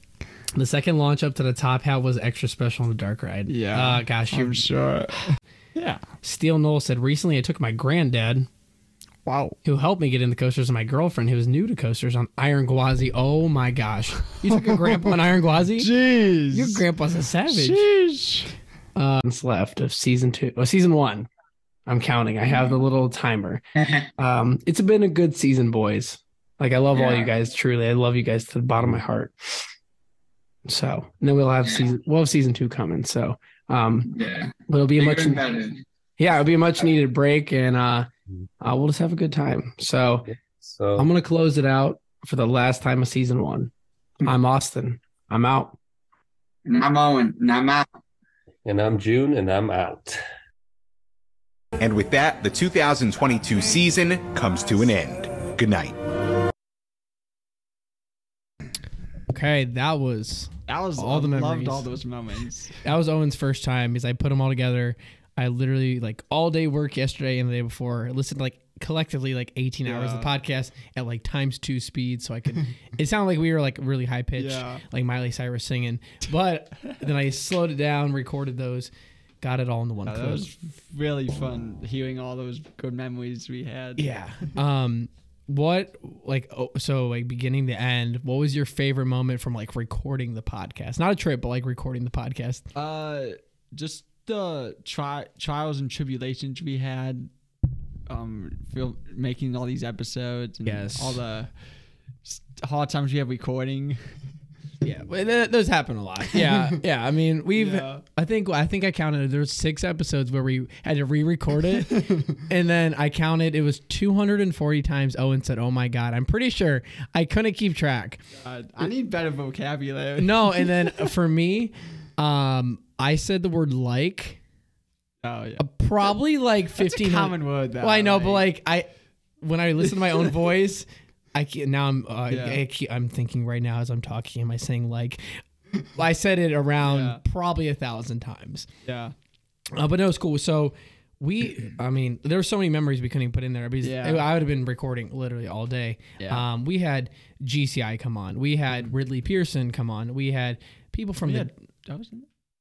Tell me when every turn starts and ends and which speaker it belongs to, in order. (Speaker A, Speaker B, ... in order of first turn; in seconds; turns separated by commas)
Speaker A: 0.5-4.7, Speaker B: 3.5-6.0, Speaker A: 6.2-8.5, Speaker B: 9.2-9.6, Speaker A: 9.6-15.9, Speaker B: 14.5-15.1, Speaker B: 15.8-16.8, Speaker A: 16.5-17.9, Speaker B: 17.5-18.5, Speaker A: 18.9-21.3, Speaker A: 21.9-23.6, Speaker A: 24.2-29.3, Speaker C: 26.9-27.2, Speaker A: 30.7-34.1, Speaker A: 34.7-35.4, Speaker C: 35.0-35.7, Speaker A: 36.2-38.1, Speaker A: 38.6-40.3, Speaker D: 40.4-41.1, Speaker A: 41.0-43.7, Speaker A: 44.2-45.7, Speaker C: 46.7-47.8, Speaker D: 48.6-50.2, Speaker E: 51.8-56.0, Speaker A: 59.3-61.9, Speaker B: 60.7-62.8, Speaker A: 62.8-78.9, Speaker B: 69.8-70.3, Speaker B: 74.4-74.8, Speaker A: 79.4-80.5, Speaker B: 80.0-84.2, Speaker A: 84.0-92.6, Speaker B: 92.7-97.3, Speaker B: 98.1-101.5, Speaker A: 100.6-101.2, Speaker B: 102.2-104.0, Speaker A: 104.8-118.2, Speaker B: 106.3-106.8, Speaker B: 107.5-108.0, Speaker B: 111.8-112.4, Speaker B: 118.3-121.1, Speaker A: 120.2-124.4, Speaker B: 125.2-125.7, Speaker A: 125.6-128.9, Speaker B: 126.8-128.5, Speaker A: 129.4-135.2, Speaker B: 129.8-130.4, Speaker B: 132.3-132.6, Speaker A: 135.9-138.7, Speaker B: 136.8-137.2, Speaker B: 138.8-139.1, Speaker A: 139.7-151.5, Speaker B: 143.8-144.2, Speaker B: 146.2-146.4, Speaker B: 151.2-152.3